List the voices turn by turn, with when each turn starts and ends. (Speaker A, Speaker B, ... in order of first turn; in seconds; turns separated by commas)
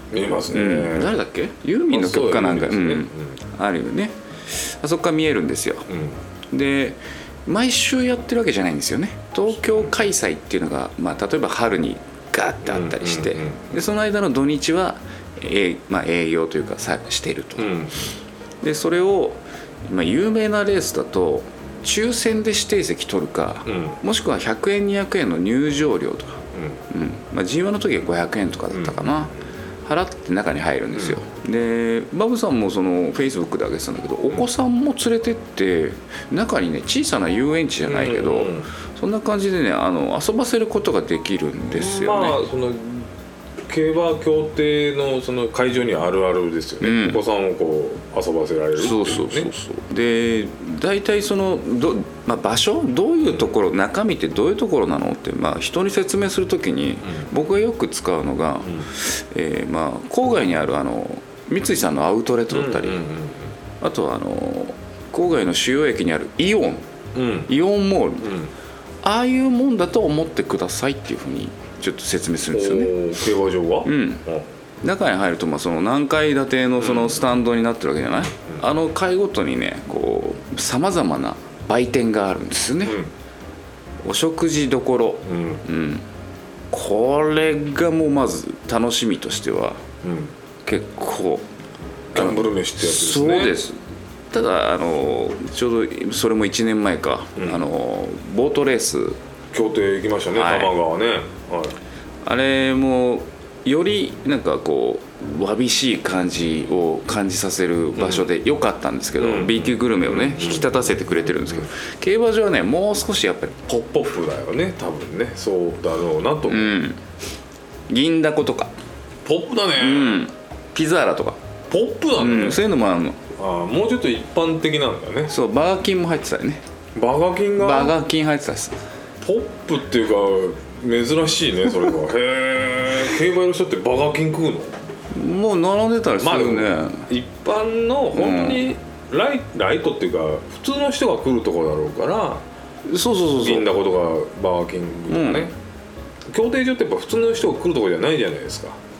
Speaker A: 0.1-1.2, Speaker B: 0.4-5.8, Speaker A: 1.9-3.4, Speaker A: 5.9-6.2, Speaker B: 6.5-17.8, Speaker A: 9.5-10.0, Speaker A: 12.6-13.8, Speaker A: 17.6-18.1, Speaker B: 18.6-29.3, Speaker A: 23.6-24.0, Speaker A: 26.5-26.8, Speaker A: 28.7-29.2, Speaker B: 29.8-42.4, Speaker A: 30.9-31.2, Speaker A: 37.9-38.7, Speaker A: 41.7-43.1, Speaker A: 43.7-49.5, Speaker B: 46.8-47.2, Speaker B: 48.8-63.0, Speaker A: 57.0-57.3, Speaker A: 58.6-58.9, Speaker A: 62.5-63.5, Speaker B: 63.8-66.8, Speaker A: 67.1-67.5, Speaker B: 67.5-68.3, Speaker A: 68.2-68.5, Speaker B: 69.0-73.0, Speaker A: 72.5-74.5, Speaker B: 73.8-74.2, Speaker B: 74.8-83.0, Speaker A: 76.8-77.3, Speaker A: 78.3-78.6, Speaker A: 82.8-83.1, Speaker B: 84.0-86.0, Speaker A: 85.2-85.6, Speaker B: 86.7-89.8, Speaker A: 90.0-90.3, Speaker B: 90.6-91.5, Speaker A: 92.1-93.6, Speaker B: 92.1-93.8, Speaker B: 94.3-99.2, Speaker A: 97.3-97.6, Speaker A: 99.5-101.8, Speaker B: 100.3-100.7, Speaker B: 102.2-113.7, Speaker A: 108.0-108.2, Speaker A: 109.2-111.7, Speaker A: 113.7-116.7, Speaker B: 116.5-117.0, Speaker B: 117.9-118.7, Speaker A: 119.2-120.2, Speaker B: 119.8-121.4, Speaker A: 121.7-122.6, Speaker B: 122.2-123.2, Speaker A: 123.3-125.3, Speaker B: 125.3-126.6, Speaker A: 127.0-128.0, Speaker B: 127.6-128.8, Speaker A: 129.2-134.7, Speaker B: 135.1-137.1, Speaker A: 136.2-142.4, Speaker B: 138.1-138.7, Speaker B: 142.8-143.7, Speaker A: 143.3-145.5, Speaker B: 145.1-145.5, Speaker A: 146.3-148.8